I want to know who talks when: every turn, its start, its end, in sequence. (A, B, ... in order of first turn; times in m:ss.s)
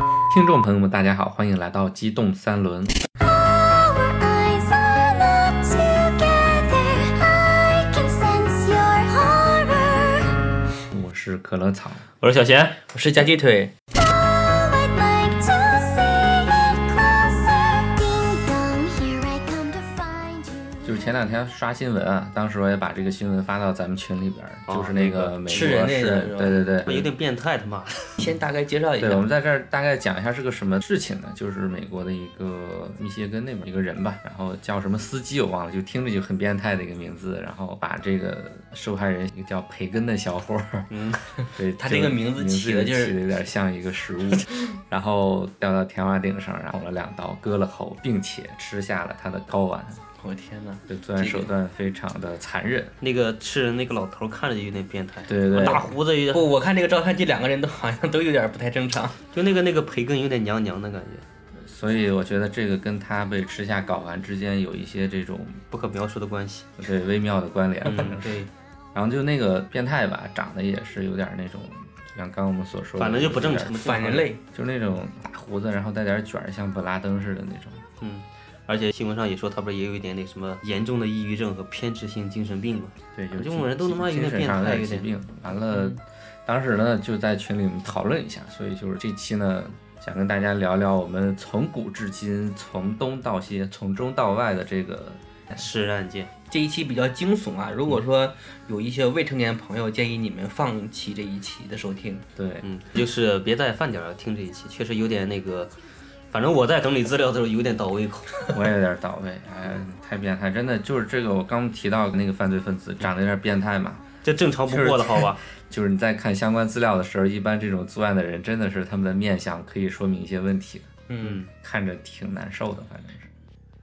0:00.3-0:02.9 A
0:03.2-0:10.4 B
0:10.9-0:12.1 A
0:12.2-0:12.8 C
0:12.9-0:13.7 D
0:13.9-0:21.1 B
0:20.8-0:27.1 A
0:24.7-0:25.9 C
0:25.5-0:26.7 D
0:26.8-0:28.0 C
0:28.2-0:29.2 D
0:29.0-0:40.9 A
0:40.9-0:41.2 C
0:41.4-0:50.0 A
0:41.4-0:43.2 D
0:50.2-0:51.5 D
0:50.9-0:52.9 A
0:53.0-0:56.5 C
0:55.3-0:55.9 A
0:55.5-0:59.2 D
0:59.3-1:01.2 C
1:01.5-1:05.6 A
1:05.7-1:06.7 C
1:06.8-1:17.8 A
1:07.8-1:08.5 C
1:13.0-1:14.3 C
1:13.8-1:14.4 D
1:18.0-1:25.1 C
1:23.1-1:35.6 A
1:35.5-1:36.3 C
1:36.5-1:42.2 D
1:42.4-1:42.6 A
1:42.6-1:45.7 C
1:46.3-1:48.5 C
1:48.5-1:54.1 A
1:54.2-1:55.4 C
1:54.7-2:01.0 A
2:01.1-2:01.4 D
2:01.2-2:01.5 C
2:01.5-2:03.3 A